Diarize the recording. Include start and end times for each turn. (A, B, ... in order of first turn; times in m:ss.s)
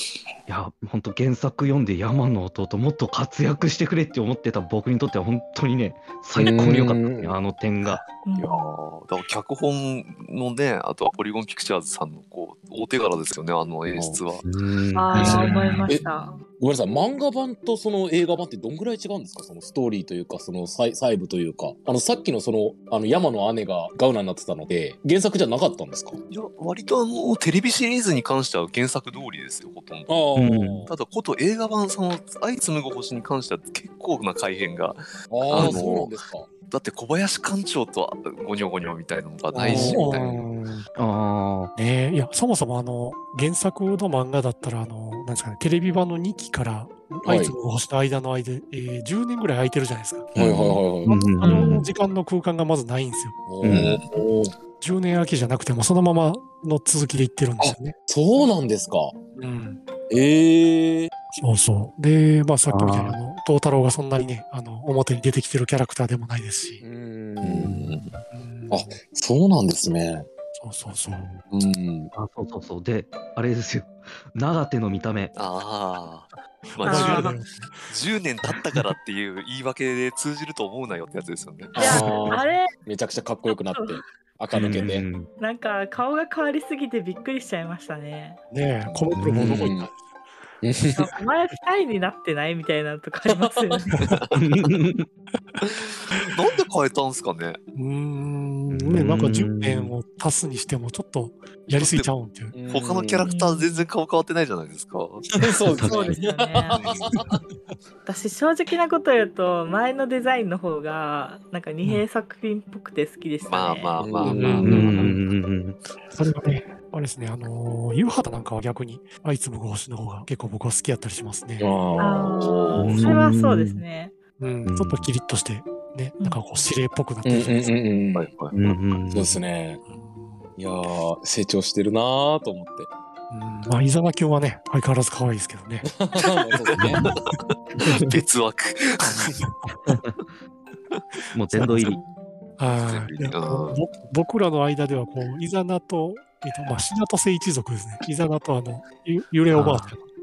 0:00.5-0:08.0 A
0:06.4-0:07.4 B
0:08.2-0:08.8 C
0:08.4-0:14.4 D
0:13.9-0:14.2 B
0:14.4-0:15.8 A
0:14.9-0:16.4 C
0:15.2-0:16.0 B
0:16.6-0:26.2 B
0:26.3-0:30.1 D
0:30.1-0:30.9 B
0:30.3-0:30.8 A
0:30.9-0:40.3 D
0:35.3-0:36.5 B
0:35.5-0:35.8 A
0:39.5-0:40.9 E
0:39.6-0:40.4 B
0:41.0-0:41.7 A
0:41.8-0:50.3 E
0:47.2-0:47.5 B
0:50.3-0:51.1 B
0:50.6-0:51.9 A
0:51.0-0:53.5 E
0:51.4-0:51.8 C
0:53.5-0:54.5 B
0:53.6-0:54.0 A
0:53.7-0:54.0 D
0:54.8-0:58.0 E
0:57.6-0:59.1 B
0:59.4-0:59.8 E
1:00.1-1:01.1 B
1:01.4-1:06.8 E
1:02.7-1:03.2 A
1:06.8-1:08.1 B
1:07.6-1:08.9 E
1:08.7-1:10.3 B
1:10.6-1:11.3 E
1:11.1-1:11.4 A
1:11.5-1:12.1 B
1:12.1-1:15.3 A
1:15.4-1:17.4 D
1:16.8-1:17.9 E
1:16.8-1:17.3 C
1:17.9-1:22.0 D
1:21.7-1:22.7 C
1:21.8-1:25.0 B
1:21.8-1:22.1 E
1:24.5-1:25.3 A
1:25.4-1:28.4 C
1:28.5-1:29.9 E
1:28.9-1:29.2 D
1:29.1-1:29.7 A
1:29.6-1:29.9 B
1:30.6-1:31.1 B
1:30.9-1:33.9 C
1:33.3-1:33.8 B
1:34.1-1:34.3 D
1:34.3-1:35.1 A
1:35.6-1:37.6 D
1:37.7-1:42.5 E
1:38.7-1:40.0 A
1:41.7-1:42.1 D
1:42.5-1:43.2 B
1:42.7-1:45.4 D
1:43.2-1:43.9 C
1:45.4-1:47.4 B
1:45.8-1:46.1 A
1:45.8-1:46.8 C
1:46.7-1:47.2 D
1:48.0-1:54.1 C
1:53.4-1:55.0 D
1:54.0-1:55.0 B
1:54.3-1:55.2 E
1:54.6-1:55.8 A
1:56.1-2:01.7 E
2:01.6-2:02.9 B
2:02.0-2:04.1 C
2:02.4-2:02.8 D
2:02.8-2:03.8 A
2:04.4-2:07.8 E
2:04.6-2:05.1 A
2:07.2-2:08.4 B
2:08.1-2:08.5 D
2:08.5-2:09.4 A
2:09.1-2:09.8 B
2:09.9-2:10.5 E
2:10.6-2:12.9 B
2:13.3-2:15.9 E
2:15.9-2:17.0 B
2:16.8-2:17.0 A
2:17.0-2:19.3 D
2:17.8-2:18.2 A
2:19.3-2:19.8 E
2:19.9-2:20.2 A
2:21.3-2:22.0 A
2:21.5-2:22.0 E
2:22.6-2:30.0 E
2:22.7-2:23.8 D
2:29.5-2:30.0 A